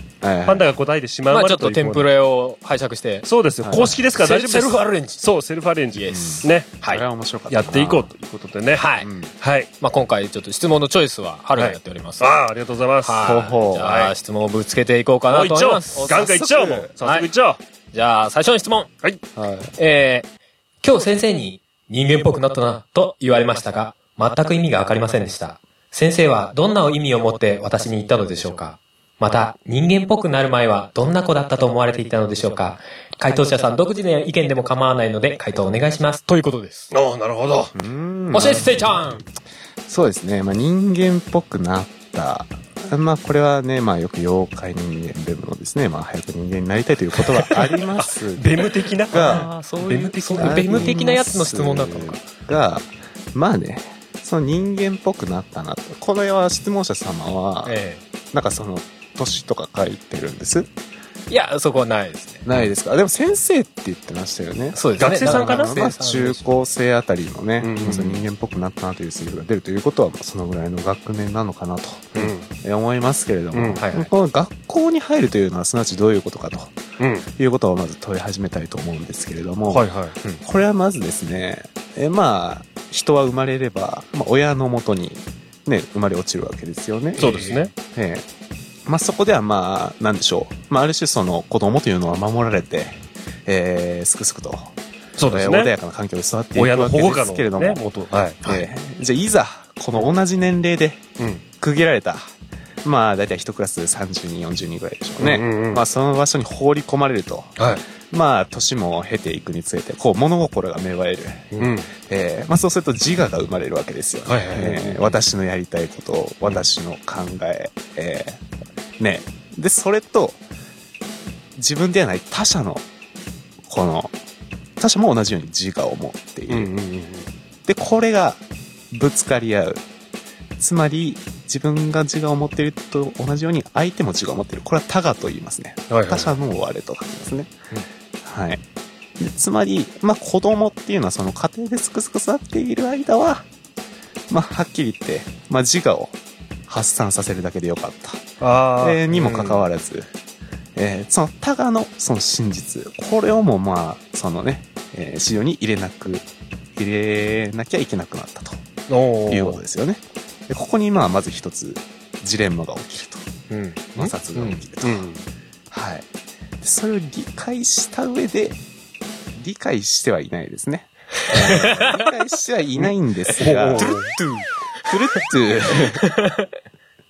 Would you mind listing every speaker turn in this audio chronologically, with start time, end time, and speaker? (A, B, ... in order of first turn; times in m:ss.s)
0:00.2-0:00.7 A
0:00.4-0:02.1 B
0:01.3-0:03.2 C
0:03.2-0:06.7 B
0:03.6-0:04.0 A
0:03.8-0:05.2 C
0:05.9-0:07.0 C
0:06.1-0:08.1 A
0:07.5-0:08.8 B
0:08.7-0:09.1 C
0:09.0-0:09.3 A
0:09.4-0:09.7 B
0:09.8-0:12.3 C
0:11.6-0:14.1 B
0:13.0-0:16.2 C
0:13.2-0:14.1 A
0:15.3-0:17.6 B
0:15.9-0:16.9 A
0:17.0-0:17.3 C
0:17.9-0:18.9 C
0:19.4-0:19.7 A
0:19.8-0:20.3 C
0:20.8-0:36.9 C
0:36.9-0:37.7 B
0:37.7-0:38.9 A
0:38.3-0:39.2 C
0:39.9-0:48.6 A
0:47.4-0:51.0 B
0:49.1-0:49.5 A
0:49.1-0:52.2 C
0:50.4-0:57.8 A
0:57.6-0:58.0 C
0:58.3-1:00.7 A
1:01.3-1:02.5 C
1:02.4-1:16.8 A
1:04.7-1:06.6 C
1:05.0-1:05.8 B
1:07.6-1:08.2 B
1:12.1-1:12.5 B
1:13.5-1:13.8 B
1:13.7-1:14.1 C
1:17.0-1:17.3 B
1:17.4-1:19.8 A
1:19.7-1:20.2 B
1:20.4-1:28.2 A
1:27.2-1:27.7 C
1:27.2-1:27.7 B
1:28.8-1:34.7 A
1:35.2-1:35.7 B
1:35.3-1:37.8 A
1:36.5-1:38.4 B
1:38.4-1:41.0 A
1:41.6-1:42.3 A
1:42.8-1:58.4 A
1:45.2-1:45.8 B
1:47.6-1:47.8 B
1:51.6-1:51.9 B
1:54.2-1:55.2 B
1:59.0-2:00.4 A
2:01.6-2:02.8 A
2:03.6-2:04.1 A
2:04.8-2:06.7 A
2:06.5-2:07.3 B
2:07.6-2:09.8 A
2:10.6-2:17.5 A
2:15.9-2:16.3 B
2:18.2-2:18.6 A
2:19.2-2:23.4 A
2:24.3-2:30.1 A
2:28.4-2:29.1 B
2:29.1-2:29.6 C
2:30.8-2:38.6 A
2:38.9-2:39.6 B
2:39.3-2:43.3 A
2:43.5-2:44.6 C
2:43.9-2:45.1 A
2:44.8-2:45.2 B
2:45.7-2:46.0 A
2:46.6-2:48.6 A
2:49.3-2:54.0 A
2:51.3-2:51.9 C
2:53.4-2:54.1 B
2:53.8-2:56.5 C
2:54.8-2:56.1 A